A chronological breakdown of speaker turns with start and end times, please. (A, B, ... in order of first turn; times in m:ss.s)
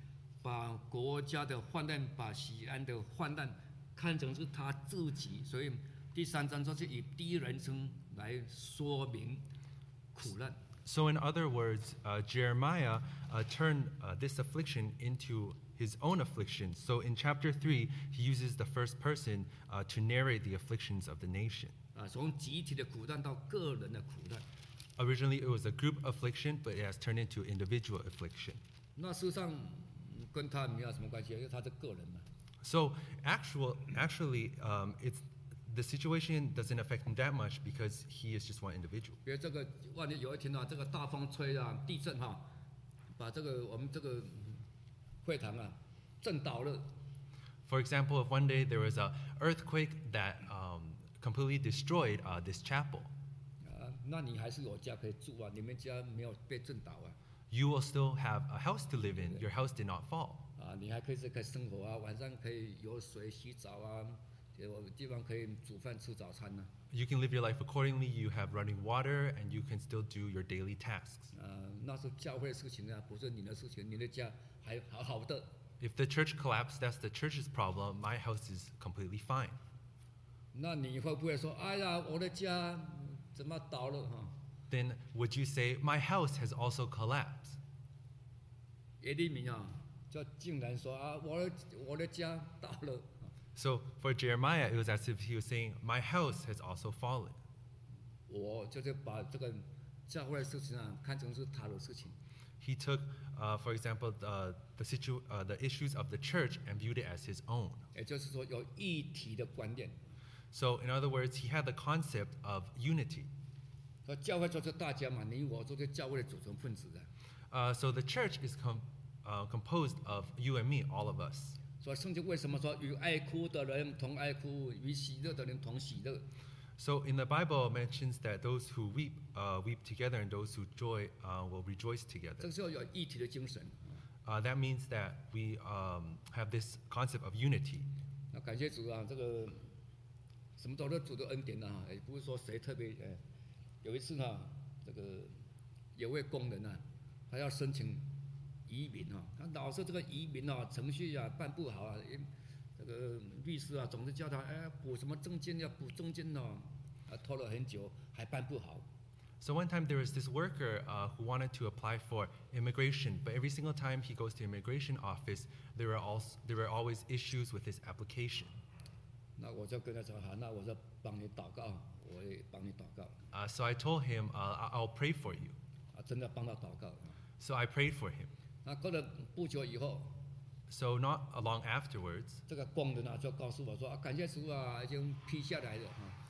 0:00.4-0:09.4 A
0:10.1-0:10.6 A
0:10.8-0:21.7 B
0:21.9-0:24.4 A
0:25.0-0:28.6 B
0:29.0-0:32.2 A
0:32.6-0:39.2 B
0:39.2-0:42.5 A
0:43.2-0:44.6 A
0:45.2-0:46.9 A
0:47.6-0:53.1 B
0:53.6-0:57.2 A
0:57.5-1:00.5 B
1:00.6-1:06.7 A
1:06.9-1:11.3 B
1:11.3-1:15.5 A
1:15.8-1:19.6 B
1:20.5-1:24.3 A
1:24.7-1:27.6 B
1:29.0-1:33.3 A
1:33.6-1:37.4 B
1:38.3-1:42.2 A
1:42.6-1:47.8 B
1:47.9-1:50.0 A
1:50.5-1:53.3 B
1:54.0-1:57.1 A
1:57.5-2:01.6 B
2:01.8-2:06.2 A
2:06.8-2:12.5 B
2:12.4-2:13.8 A
2:14.2-2:17.9 B
2:18.3-2:19.6 A
2:20.6-2:23.2 A
2:23.8-2:25.4 A
2:26.0-2:28.1 A
2:28.7-2:38.8 A
2:39.4-2:48.6 B
2:49.4-2:53.2 A
2:53.3-2:55.6 B
2:55.9-2:57.1 A
2:57.4-2:58.3 B
2:58.6-3:00.2 A
3:00.7-3:02.4 B
3:02.5-3:06.2 A